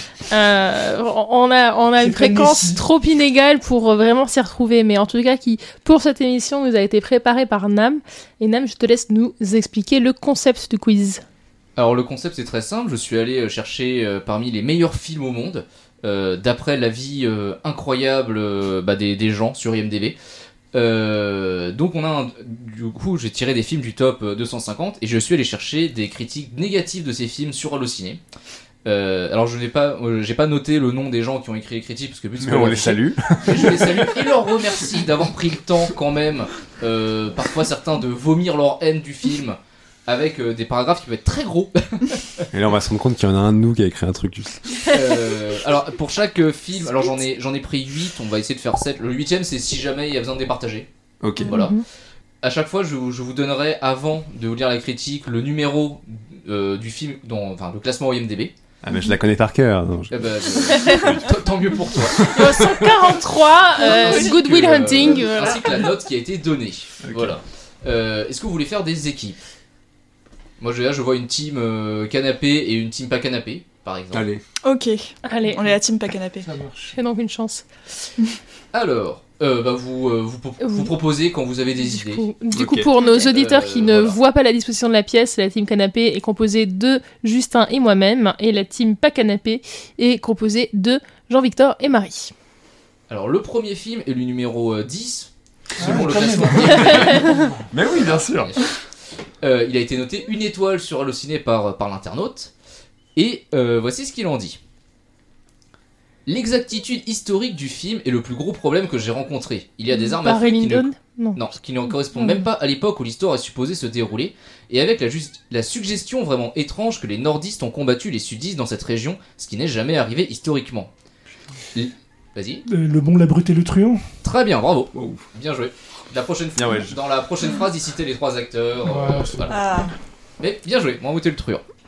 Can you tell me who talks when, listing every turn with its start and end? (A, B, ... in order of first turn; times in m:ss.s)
0:00.3-0:11.2 A
0:02.0-0:02.8 B
0:11.8-0:20.2 C
0:20.7-0:28.2 C
0:28.8-0:42.4 C
0:32.4-0:34.1 D
0:42.5-0:44.6 D
0:44.8-0:50.9 C
0:51.2-0:51.6 D
0:51.4-0:51.8 A
0:51.4-0:51.8 C
0:52.4-0:58.5 C
0:58.8-1:01.2 D
1:00.1-1:03.2 C
1:00.7-1:01.0 A
1:02.3-1:05.8 A
1:03.8-1:09.4 C
1:07.1-1:07.4 D
1:10.6-1:14.2 C
1:14.1-1:14.4 D
1:14.6-1:16.5 E
1:15.2-1:15.6 A
1:15.4-1:15.8 B
1:16.4-1:16.9 B
1:16.9-1:17.6 A
1:18.7-1:22.3 C
1:20.6-1:20.9 A
1:21.9-1:32.3 A
1:22.5-1:22.9 D
1:23.0-1:24.2 C
1:33.1-1:38.7 C
1:35.8-1:37.7 B
1:37.7-1:38.6 D
1:39.4-1:42.5 C
1:43.2-1:44.6 C
1:46.2-2:00.9 C
1:49.9-1:51.4 A
1:52.1-1:52.4 A
2:01.7-2:02.6 C
2:02.6-2:04.0 B
2:04.2-2:09.7 C
2:04.9-2:05.2 D
2:06.6-2:07.0 D
2:08.8-2:09.6 B
2:09.5-2:09.9 E
2:10.4-2:11.6 C